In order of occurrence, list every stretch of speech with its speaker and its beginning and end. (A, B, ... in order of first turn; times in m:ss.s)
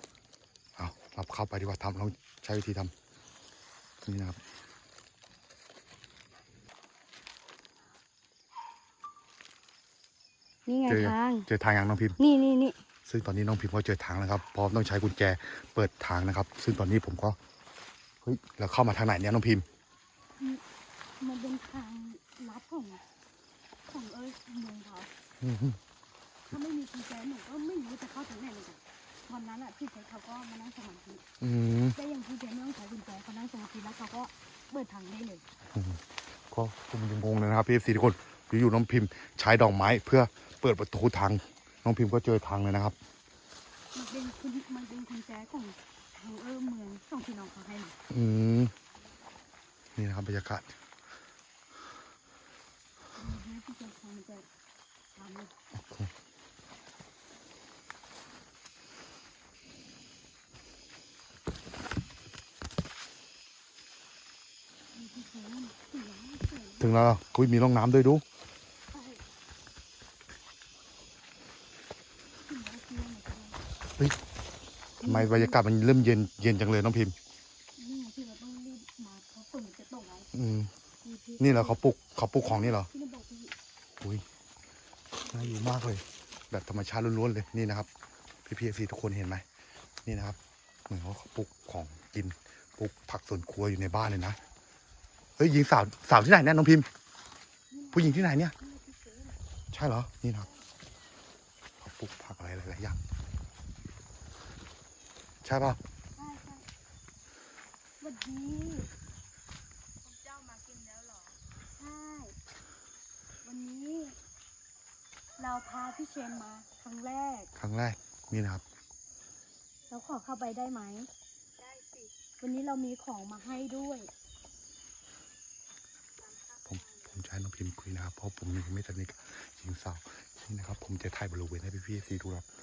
0:00.8-0:02.9 A
0:04.0-0:04.4 A
0:10.7-0:11.5 B
0:10.9-0:12.2 A
0:12.2-0:12.8 B
0:13.1-0:17.4 A
0:18.2-0:19.7 A
0:21.2-0:23.0 B
0:23.9-0:25.1 B
0:25.4-0:25.8 A
0:26.5-0:31.2 B
0:31.4-0:32.0 A
0:32.0-0:35.4 B
0:35.7-0:43.0 A
0:43.9-0:48.0 B
0:48.1-0:48.7 A
0:50.0-0:50.7 A
0:53.2-0:54.5 B
0:55.1-0:55.5 B
0:55.7-0:56.1 A
1:04.9-1:06.9 B
1:06.8-1:08.2 A
1:08.9-1:09.2 B
1:12.4-1:13.6 B
1:15.0-1:15.6 B
1:15.0-1:17.2 A
1:17.8-1:20.3 B
1:20.3-1:20.7 A
1:21.0-1:21.8 B
1:21.4-1:22.9 A
1:22.4-1:23.5 B
1:25.2-1:27.9 A
1:28.5-1:29.4 A
1:30.0-1:30.4 A
1:30.9-1:34.4 A
1:35.4-1:36.9 A
1:37.7-1:39.4 B
1:37.9-1:38.5 A
1:39.7-1:40.5 A
1:41.8-1:43.0 A
1:45.4-1:45.8 A
1:46.2-1:46.6 B
1:48.0-1:48.9 B
1:50.0-1:51.4 C
1:51.8-1:52.4 B
1:53.4-1:54.2 B
1:55.4-1:57.5 B
1:57.6-1:58.6 A
1:59.9-2:01.1 B
2:01.6-2:02.1 C
2:02.4-2:04.1 B
2:06.2-2:07.2 C
2:06.7-2:12.5 A